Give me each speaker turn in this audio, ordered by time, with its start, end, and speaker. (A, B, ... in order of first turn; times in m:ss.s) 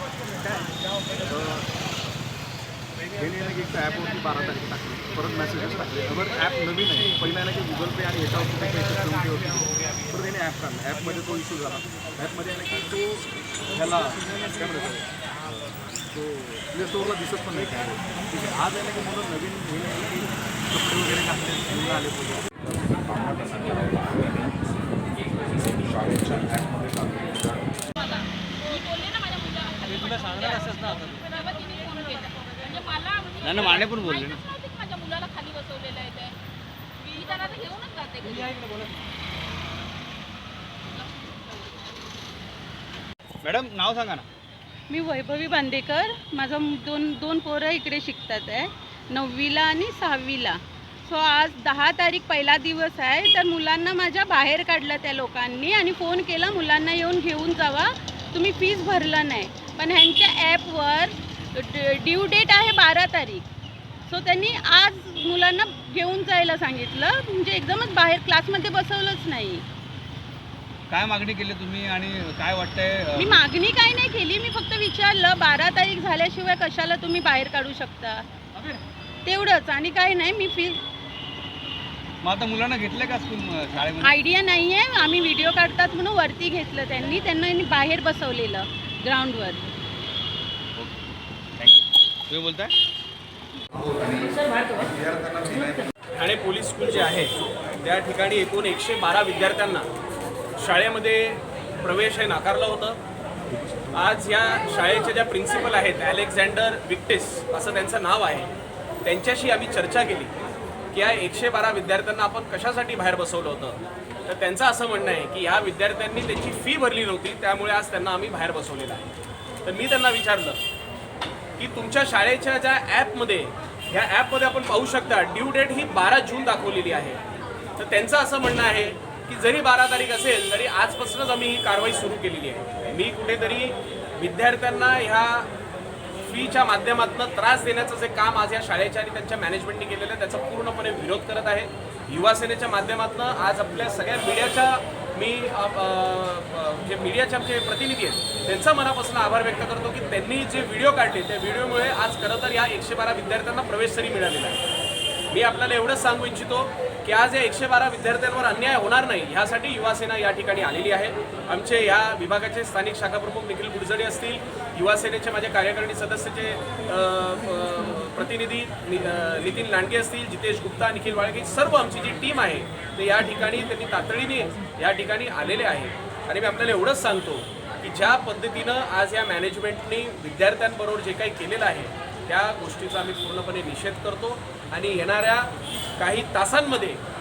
0:00.4-0:00.7 A
0:01.3-0:01.7 A
0:03.2-0:15.1 A
0:16.1-0:22.5 A
0:23.1-0:24.2 A
0:26.0-0:27.3 A
0:28.0-0:36.4 B
0:33.4-0:34.5 C
0:37.0-0:38.7 B
0:43.4-0:44.3 C
0:44.9-1:03.4 D
1:04.1-1:09.6 D
1:10.9-1:13.4 C
1:13.2-1:18.2 D
1:19.2-1:20.8 D
1:22.2-1:24.1 C
1:24.0-1:29.6 D
1:31.6-1:32.7 C
1:33.8-1:35.8 A
1:36.1-1:39.9 E
1:40.6-1:43.0 E
1:43.6-1:44.0 A
1:43.9-1:48.5 E
1:49.0-1:50.4 E
1:50.9-1:59.1 E
1:59.6-2:00.6 E
2:01.6-2:07.2 E
2:07.8-2:15.5 E
2:16.2-2:34.6 E
2:35.3-3:07.0 E